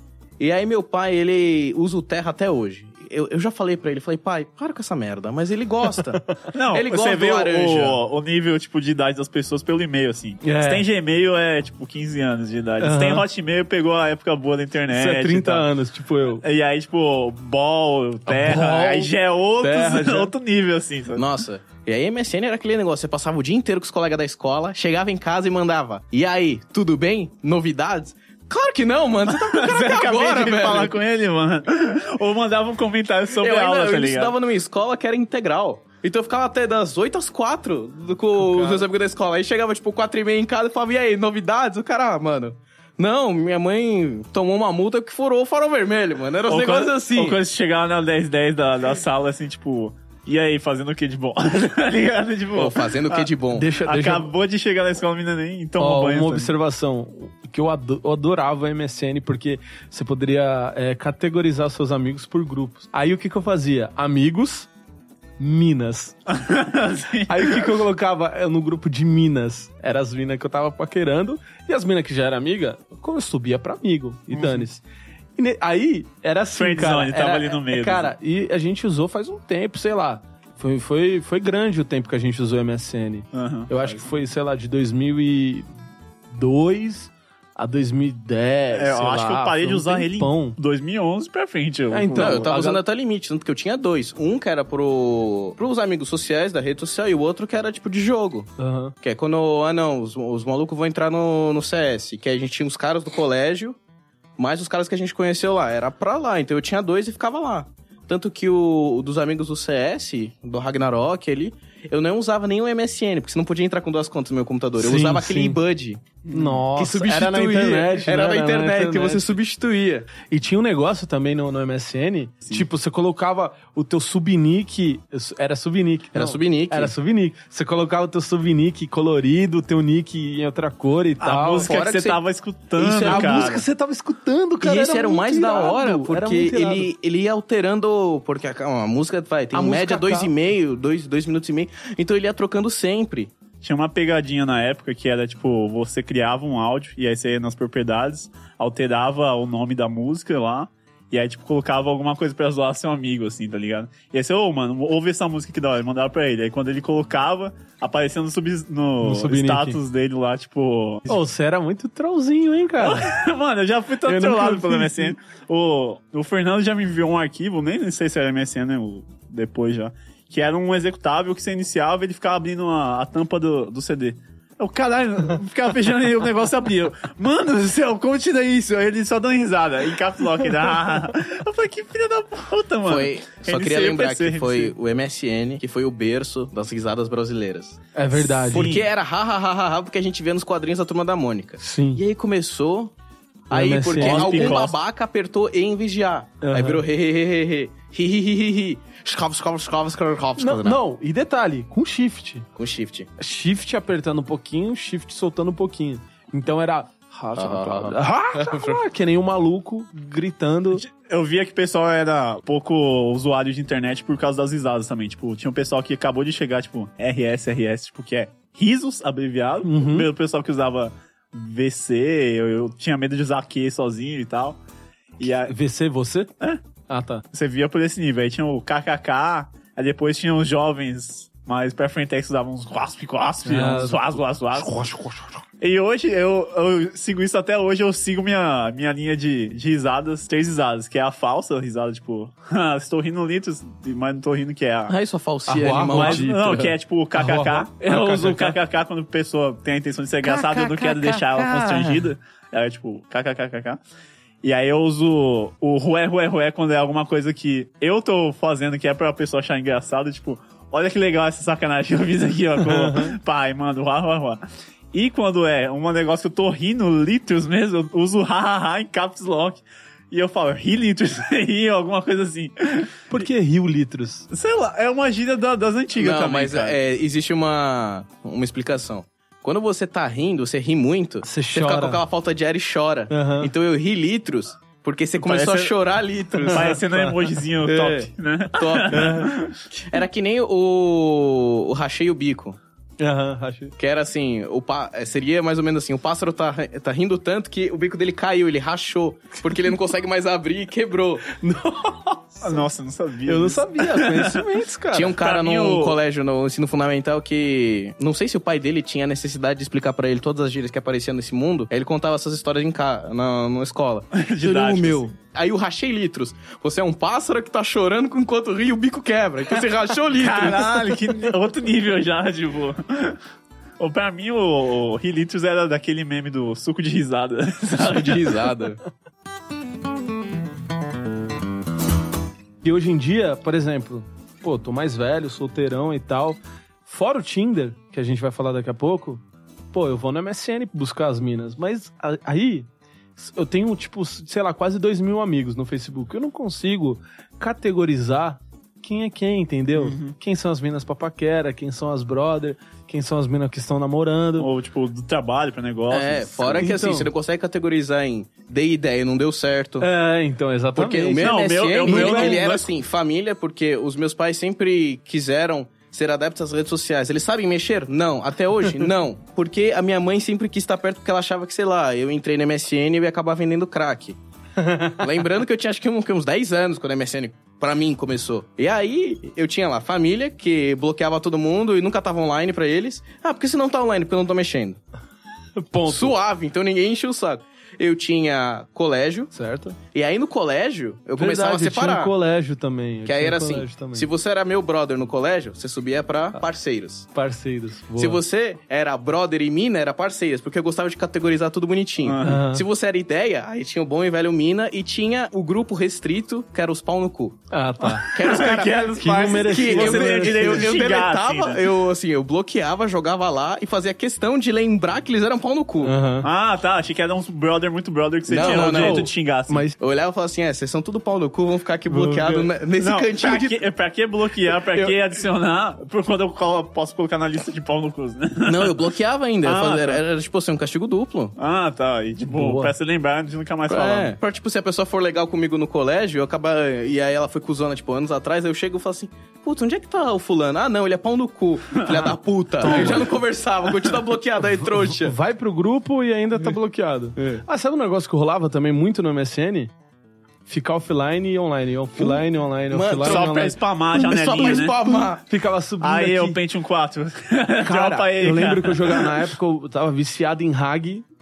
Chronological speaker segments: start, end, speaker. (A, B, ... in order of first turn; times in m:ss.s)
0:00.4-0:08.0 A
0:06.5-0:15.7 B
0:10.4-0:10.8 C
0:12.8-0:13.2 C
0:14.9-0:16.4 C
0:16.4-0:21.2 B
0:18.3-0:20.3 C
0:21.1-0:30.9 A
0:29.3-0:34.3 B
0:33.4-0:47.4 A
0:38.4-0:38.8 B
0:46.5-0:56.5 B
0:52.5-0:53.7 A
0:53.5-0:54.3 C
0:55.8-1:04.7 C
1:05.4-1:06.2 C
1:06.3-1:07.7 B
1:07.3-1:14.8 C
1:14.3-1:14.6 B
1:15.4-1:25.7 C
1:16.5-1:18.1 B
1:23.3-1:24.0 B
1:26.3-1:30.6 C
1:28.7-1:32.5 B
1:31.9-1:32.8 C
1:32.2-1:38.5 A
1:38.6-1:38.9 C
1:39.0-1:43.8 A
1:44.4-1:56.2 A
1:54.8-1:55.6 C
1:56.2-1:56.6 B
1:56.3-1:59.3 C
1:56.8-2:00.1 A
2:00.2-2:11.7 C
2:06.1-2:06.9 A
2:11.2-2:13.6 B
2:11.6-2:12.2 A
2:12.8-2:13.6 A
2:13.0-2:16.9 C
2:14.6-2:23.3 A
2:19.5-2:20.3 C
2:23.6-2:41.2 B
2:39.0-2:39.8 C
2:41.1-2:43.1 C
2:42.8-3:04.7 B
2:44.0-2:45.1 C
3:02.8-3:07.8 A
3:07.9-3:08.7 C
3:08.1-3:08.8 B
3:08.5-3:12.9 A
3:11.6-3:12.0 C
3:13.5-3:14.6 C
3:13.5-3:20.8 A
3:14.0-3:14.8 B
3:16.4-3:16.8 C
3:20.4-3:22.4 C
3:22.6-3:23.1 A
3:23.2-3:30.8 C
3:27.4-3:28.8 A
3:30.7-3:44.6 B
3:39.6-3:40.1 C
3:45.2-3:45.5 B
3:45.5-3:46.3 C
3:46.9-3:47.2 C
3:47.3-3:54.7 B
3:53.4-3:55.4 C
3:55.6-4:04.9 B
4:04.9-4:06.6 A
4:05.5-4:08.6 C
4:05.6-4:13.8 B
4:10.2-4:12.0 A
4:14.4-4:24.4 B
4:22.6-4:23.1 C
4:24.9-4:33.2 B
4:33.1-4:34.2 C
4:34.3-4:36.8 B
4:36.0-4:46.7 A
4:41.2-4:42.0 C
4:43.1-4:43.5 C
4:45.2-4:45.7 B
4:46.3-4:48.1 C
4:46.5-4:49.6 B
4:48.6-4:52.6 A
4:48.9-4:49.3 C
4:53.0-4:53.7 C
4:53.8-5:01.4 A
5:01.4-5:02.6 C
5:02.4-5:04.4 B
5:03.2-5:05.2 C
5:04.9-5:20.9 A
5:05.2-5:06.0 B
5:14.1-5:15.1 B
5:20.1-5:23.2 B
5:23.8-5:28.3 B
5:27.7-5:28.8 A
5:32.6-5:54.5 C
5:49.8-5:50.1 B
5:54.4-5:56.8 B
5:55.9-5:59.8 A
5:56.4-5:57.1 C
5:59.8-6:02.4 C
6:00.8-6:14.2 A
6:01.2-6:02.7 B
6:14.6-6:14.9 C
6:15.0-6:24.8 A
6:25.6-6:26.1 C
6:25.9-6:29.3 A
6:29.3-6:29.8 C
6:29.9-6:32.1 A
6:31.2-6:34.1 C
6:33.0-6:37.1 A
6:37.1-6:38.2 C
6:38.0-6:47.4 A
6:42.0-6:42.4 B
6:42.2-6:42.6 C
6:47.5-6:48.2 C
6:47.9-6:51.6 B
6:48.1-6:55.9 A
6:48.9-6:50.7 C
6:55.8-6:56.3 C
6:56.2-6:59.6 B
6:58.3-6:59.1 A
6:58.4-6:59.8 C
6:59.8-7:03.6 A
7:01.9-7:02.5 C
7:02.8-7:08.8 B
7:08.4-7:11.4 A
7:09.4-7:10.0 B
7:11.4-7:14.2 B
7:12.3-7:12.7 C
7:13.7-7:25.1 A
7:21.8-7:23.0 B
7:22.6-7:23.2 C
7:24.6-7:29.7 C
7:30.5-7:33.6 C
7:32.0-7:33.3 A
7:33.0-7:34.8 B
7:33.9-7:35.2 A
7:34.4-7:36.4 C
7:35.8-7:39.2 B
7:37.6-7:41.0 C